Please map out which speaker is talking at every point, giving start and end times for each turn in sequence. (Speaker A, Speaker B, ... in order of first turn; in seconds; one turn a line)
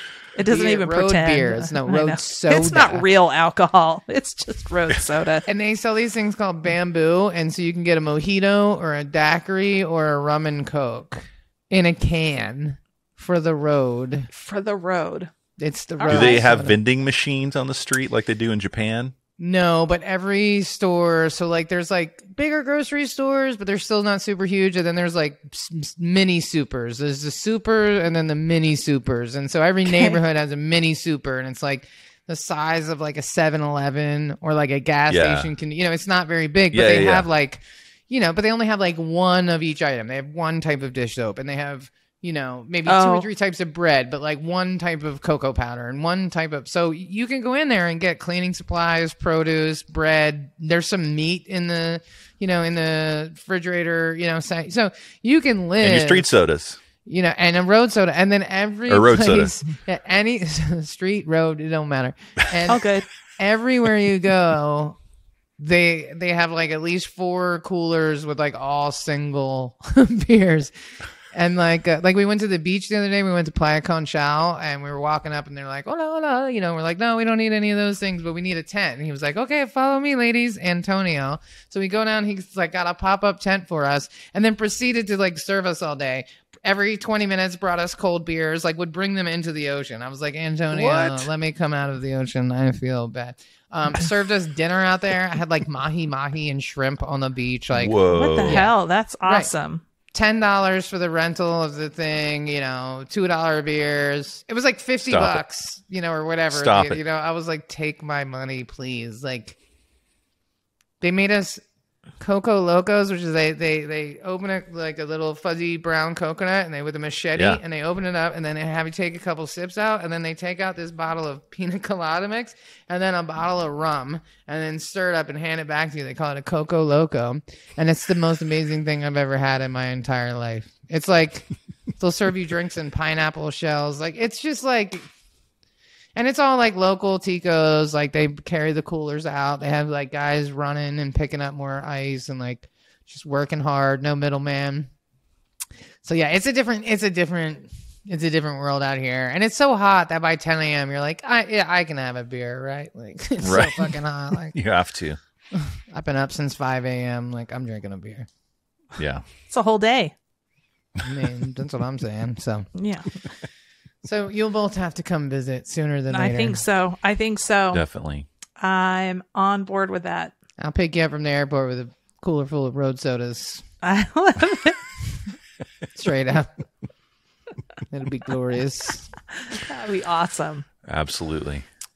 Speaker A: 0.3-5.5
Speaker B: 0.5-3.1
Speaker B: 5.5-14.3
Speaker A: 14.3-15.3
Speaker B: 15.6-16.8
Speaker A: 16.0-16.5
Speaker C: 16.1-19.1
Speaker B: 19.4-56.3
Speaker A: 29.9-30.2
Speaker C: 35.1-35.5
Speaker C: 36.7-37.3
Speaker A: 42.9-43.3
Speaker C: 55.8-56.8
Speaker B: 57.0-62.9
Speaker C: 58.9-59.6
Speaker A: 62.7-63.1
Speaker B: 63.4-65.0
Speaker B: 65.6-70.7
Speaker B: 71.3-98.7
Speaker C: 90.7-91.2
Speaker C: 97.7-98.7
Speaker A: 98.1-99.8
Speaker B: 99.2-99.5
Speaker B: 100.1-109.6
Speaker C: 105.1-105.4
Speaker C: 106.5-107.0
Speaker B: 111.0-111.6
Speaker B: 112.2-135.1
Speaker B: 136.2-144.9
Speaker B: 146.0-154.6
Speaker C: 153.4-153.9
Speaker C: 154.5-155.2
Speaker B: 155.5-158.3
Speaker C: 159.0-159.2
Speaker A: 159.5-160.1
Speaker B: 161.1-162.7
Speaker A: 162.8-163.2
Speaker B: 164.0-166.6
Speaker A: 166.1-167.8
Speaker C: 167.7-168.3
Speaker A: 168.6-170.3
Speaker B: 170.6-173.7
Speaker A: 173.8-174.9
Speaker B: 175.9-176.5
Speaker B: 177.9-179.2
Speaker A: 179.5-180.7
Speaker C: 180.9-181.7